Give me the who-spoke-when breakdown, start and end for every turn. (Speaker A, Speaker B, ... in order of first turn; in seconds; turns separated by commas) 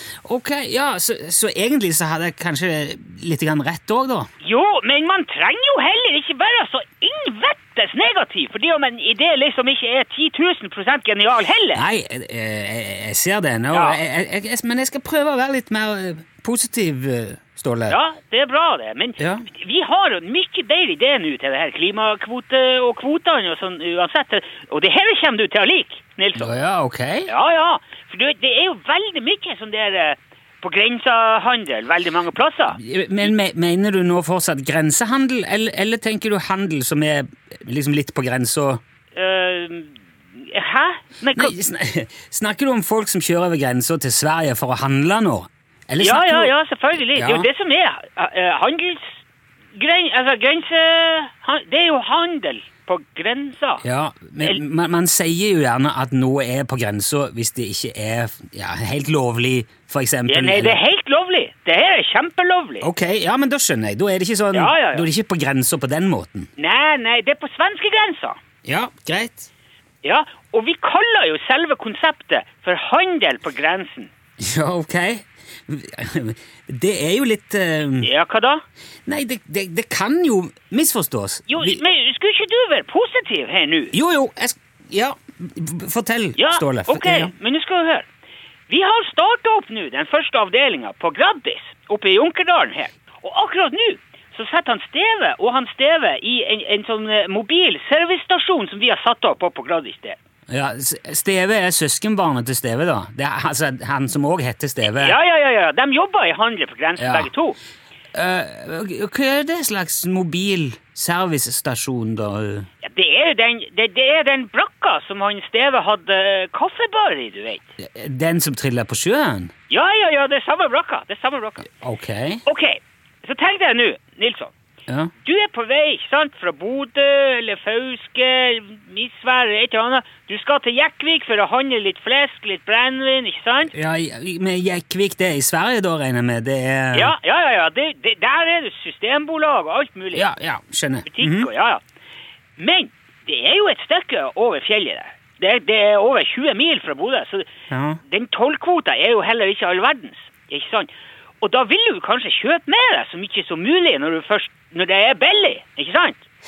Speaker A: 0.2-4.3, Speaker B: 4.4-11.8, Speaker A: 11.8-18.0, Speaker B: 13.7-14.0, Speaker B: 17.9-26.6, Speaker A: 19.2-19.5, Speaker A: 26.4-27.3, Speaker B: 27.3-32.8, Speaker A: 32.8-38.8, Speaker B: 39.1-41.5, Speaker A: 41.3-46.5, Speaker B: 46.0-49.2, Speaker A: 47.1-47.5, Speaker B: 49.8-53.8, Speaker A: 53.8-60.8, Speaker B: 60.3-62.9, Speaker A: 62.8-66.5, Speaker B: 64.5-65.1, Speaker B: 66.6-68.4, Speaker A: 68.7-69.5, Speaker B: 70.0-74.1, Speaker A: 74.4-78.1, Speaker B: 78.0-78.6, Speaker A: 79.1-81.8, Speaker B: 81.5-83.9, Speaker A: 83.9-87.3, Speaker B: 86.4-88.1, Speaker B: 88.7-100.2, Speaker A: 100.5-105.2, Speaker B: 104.8-107.6, Speaker A: 107.0-107.3, Speaker A: 108.1-112.7, Speaker B: 112.8-117.6, Speaker A: 117.8-119.5, Speaker B: 119.7-121.7, Speaker A: 121.8-122.4, Speaker B: 122.5-124.5, Speaker B: 125.2-133.7, Speaker A: 133.7-137.1, Speaker B: 136.9-140.3, Speaker A: 140.1-141.5, Speaker B: 141.1-141.8, Speaker B: 142.6-147.5, Speaker A: 147.7-148.0, Speaker B: 148.1-150.9, Speaker B: 151.4-156.2